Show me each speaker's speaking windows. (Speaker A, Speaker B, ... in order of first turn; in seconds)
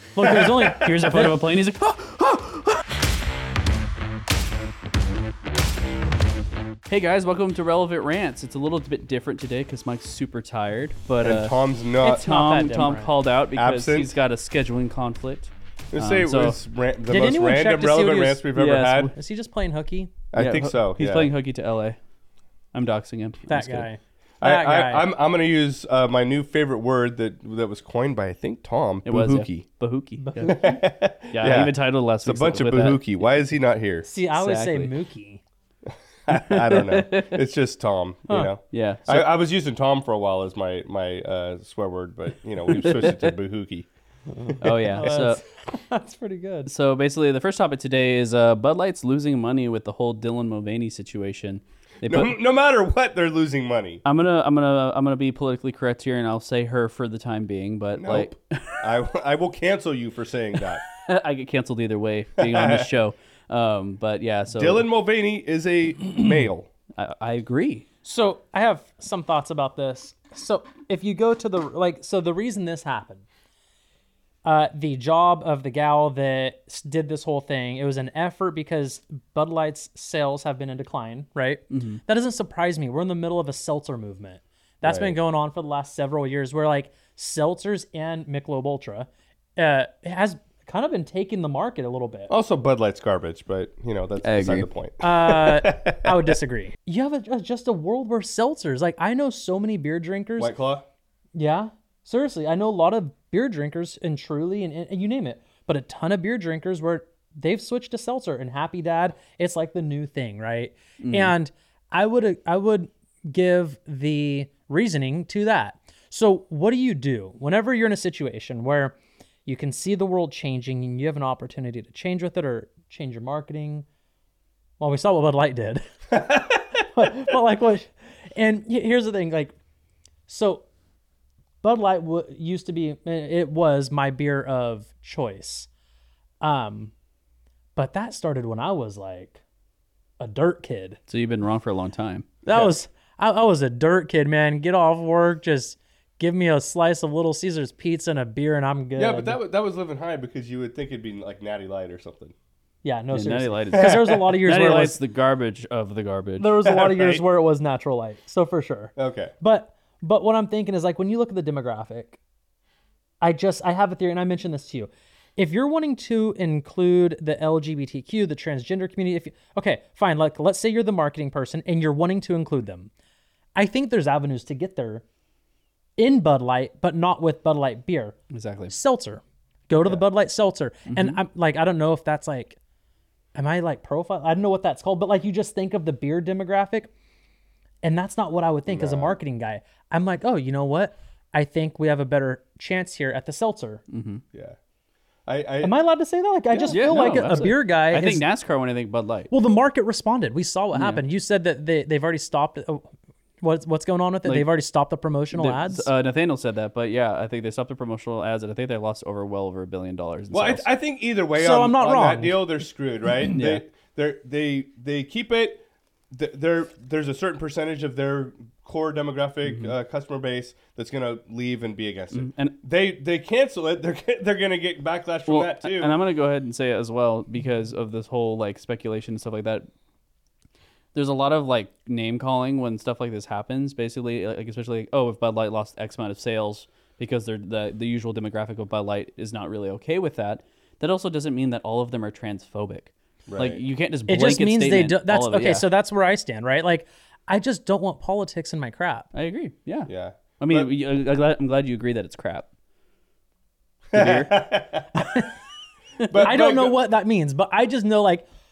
Speaker A: 0.2-1.4, 12.0-13.1, 17.1-18.4, 19.1-20.1, 23.5-25.1, 30.2-30.7, 34.0-35.4, 44.4-46.7, 68.0-73.2, 74.4-92.3, 95.0-100.5, 101.3-118.9, 119.5-123.9, 124.8-126.1, 126.9-129.5, 130.3-130.7, 131.6-135.7, 136.4-136.9, 137.8-139.4, 140.2-141.0, 142.4-149.4, 152.8-155.0, 156.4-162.2, 163.2-172.9, 173.6-175.0, 176.0-178.2, 178.7-182.6, 183.3-186.9, 187.8-193.8, 195.6-198.2, 199.3-202.9, 203.4-205.9, 211.4-212.4, 244.1-249.1, 254.9-255.3, 256.2-258.2
Speaker B: 0.2-0.9, 11.2-12.3, 13.5-14.1, 15.9-19.1, 20.3-21.3, 24.4-29.7, 30.4-34.0, 36.3-43.9, 52.0-54.0, 58.0-60.8, 62.4-62.9, 64.5-66.7, 84.8-85.1, 92.3-96.3, 100.4-100.9, 126.2-126.5, 149.0-152.3, 153.7-154.4, 156.7-157.2, 159.0-159.3, 188.7-189.2, 195.3-195.8, 196.5-197.5, 210.3-225.9, 243.3-243.6, 249.9-250.7, 253.9-255.3, 256.1-256.8
Speaker C: 0.8-2.8, 6.9-11.6, 12.2-16.6, 18.6-19.1, 20.4-21.9, 22.7-23.9, 29.1-30.7, 31.3-33.2, 34.3-34.9, 36.3-37.3, 38.7-39.3, 42.7-43.3, 44.6-45.4, 46.7-52.3, 54.0-58.8, 60.9-64.8, 67.0-67.9, 81.7-82.0, 94.2-94.7, 111.0-111.3, 141.1-142.3, 153.1-156.6, 178.3-178.7, 180.9-181.2, 193.9-194.2, 196.7-199.3, 200.7-201.0, 205.3-210.7, 213.3-213.6, 219.5-219.7, 222.1-222.6, 225.3-229.7, 230.9-245.6, 249.1-252.5, 253.9-254.3